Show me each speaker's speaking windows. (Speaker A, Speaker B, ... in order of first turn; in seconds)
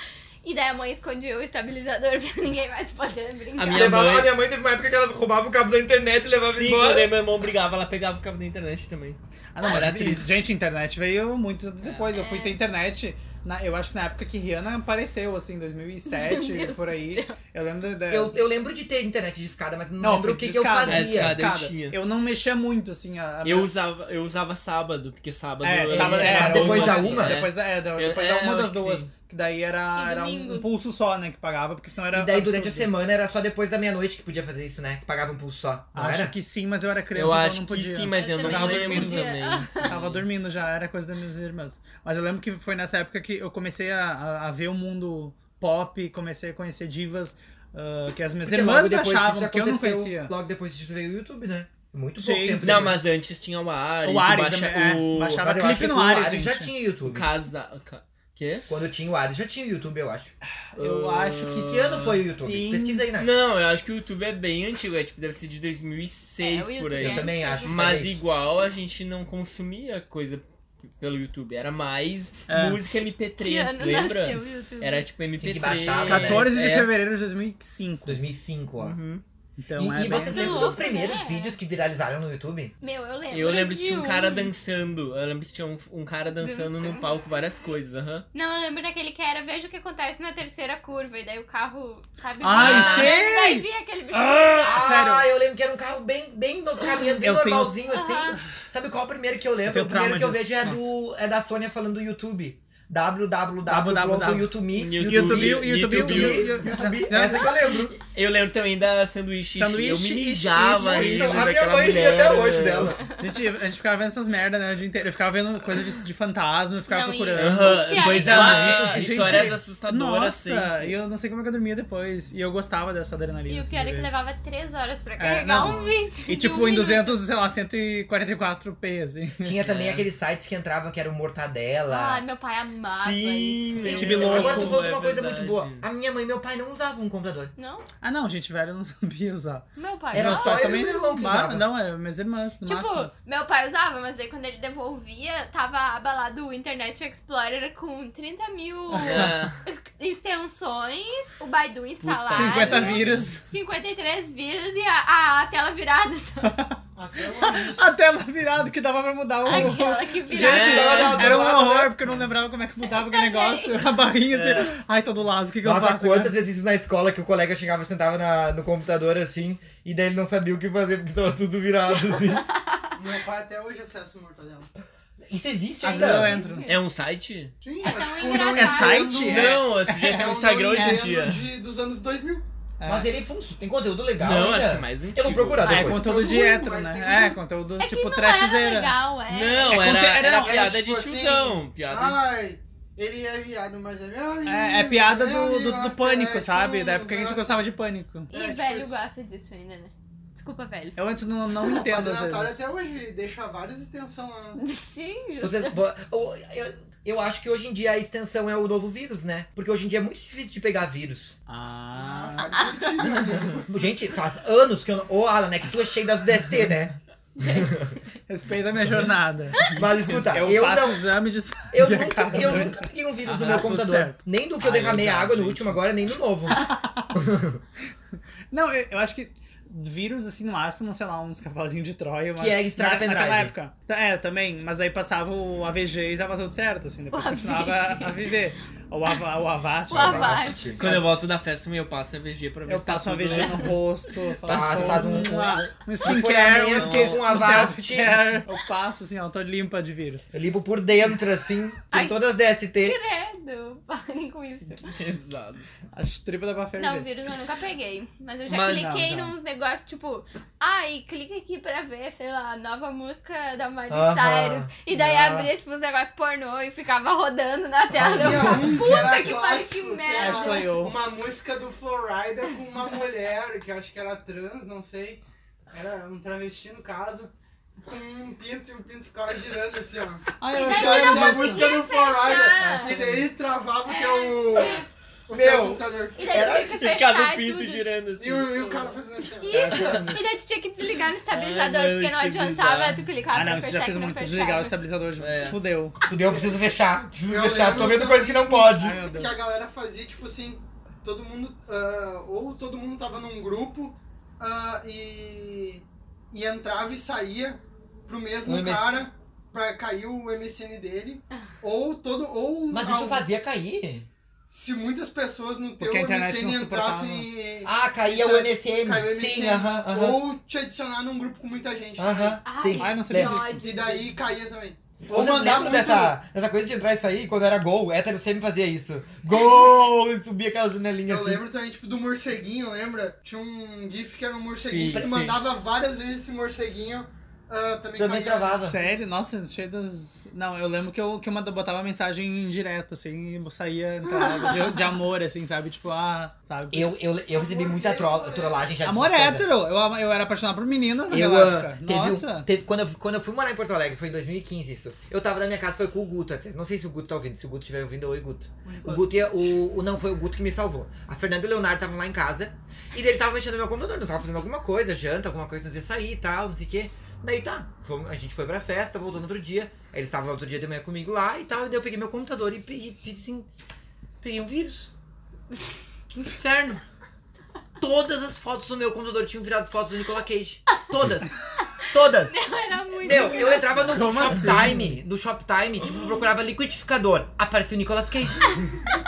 Speaker A: 0.4-4.0, 12.1-12.6, 16.1-17.4, 29.9-30.7, 38.1-39.9, 66.4-67.8, 73.4-75.1, 80.0-81.6, 82.8-84.5, 86.4-87.2, 88.3-95.0, 97.9-98.4, 116.9-118.8, 123.5-127.2, 131.9-134.7, 137.6-137.8, 139.8-140.8, 142.7-156.6, 159.4-161.4, 162.8-163.8, 172.2-173.0, 176.1-176.8, 177.8-179.3, 187.8-189.8, 198.3-201.1, 204.6-205.8, 217.4-218.0, 237.1-238.3, 239.9-240.8, 251.9-252.2, 252.8-255.0, 256.8-270.8, 280.5-283.0, 283.9-284.8, 286.2-287.9, 289.4-294.8, 322.4-324.1, 344.2-344.6, 381.6-384.0
Speaker B: 3.6-4.3, 6.5-10.4, 11.8-12.1, 20.9-22.0, 23.4-29.1, 37.1-40.3, 52.6-55.5, 57.1-58.7, 60.8-62.1, 63.2-70.4, 71.0-76.9, 83.3-88.3, 92.5-93.2, 104.8-106.6, 107.9-113.0, 117.3-121.0, 129.6-130.1, 132.9-135.8, 148.9-149.6, 152.0-153.2, 160.3-161.3, 164.3-164.7, 176.7-177.5, 179.2-181.4, 184.2-185.8, 189.3-192.2, 219.7-220.5, 240.7-243.8, 244.5-245.1, 246.7-247.7, 254.8-255.7, 258.5-259.3, 286.6-289.0, 289.5-290.1, 291.3-293.6, 295.2-295.6, 334.6-335.4
Speaker C: 3.7-7.2, 18.1-21.4, 25.8-27.4, 32.1-36.3, 48.4-53.0, 55.4-57.3, 58.7-60.3, 61.6-63.3, 67.0-68.2, 75.4-76.5, 78.1-79.0, 79.8-82.8, 92.6-93.1, 94.7-108.0, 110.7-113.0, 118.0-119.6, 129.4-132.2, 133.8-137.5, 140.1-141.7, 159.5-161.9, 165.6-172.4, 175.2-176.4, 182.8-186.1, 205.4-211.3, 213.7-217.9, 219.7-221.1, 221.7-227.6, 232.4-233.5, 239.9-241.0, 244.5-248.3, 250.3-253.0, 263.9-265.5, 268.0-268.7, 285.3-286.8, 296.1-299.0, 308.4-309.0, 312.7-314.1, 317.6-320.2, 322.0-323.4, 325.1-331.4, 334.9-335.2, 338.0-338.8, 346.7-349.5, 351.1-373.5, 374.2-374.9, 376.1-376.8, 377.8-382.4, 383.0-388.7
Speaker D: 9.6-18.4, 20.0-23.7, 25.6-32.9, 35.9-50.3, 52.2-53.0, 54.0-56.7, 60.7-63.1, 72.5-72.8, 76.0-78.3, 78.8-80.7, 92.4-95.3, 97.2-97.8, 99.7-100.9, 103.7-107.5, 109.5-111.5, 113.2-124.1, 125.2-129.6, 133.9-135.0, 138.0-143.1, 149.0-149.3, 152.2-153.4, 156.4-156.8, 157.3-166.4, 175.8-176.7, 178.3-181.1, 182.8-183.1, 185.6-188.9, 189.6-190.6, 194.5-198.3, 201.0-202.6, 211.5-212.6, 218.3-219.7, 220.3-225.8, 226.6-227.2, 228.5-241.1, 242.7-250.3, 255.9-257.1, 258.7-259.3, 270.1-271.0, 280.4-281.8, 282.6-283.3, 289.5-290.2, 293.3-296.0, 298.7-299.4, 315.8-317.3, 322.7-323.6, 338.6-347.0, 348.8-352.5, 358.7-359.3, 383.8-385.0
Speaker E: 157.0-157.9, 173.0-174.7, 176.2-176.6, 177.6-182.4, 185.8-187.4, 189.9-197.7, 198.3-198.9, 201.6-204.6, 211.9-213.8, 268.0-277.3, 277.8-286.5, 288.2-289.8, 297.3-313.3, 314.5-322.4, 323.6-326.2, 331.1-338.9, 347.3-348.8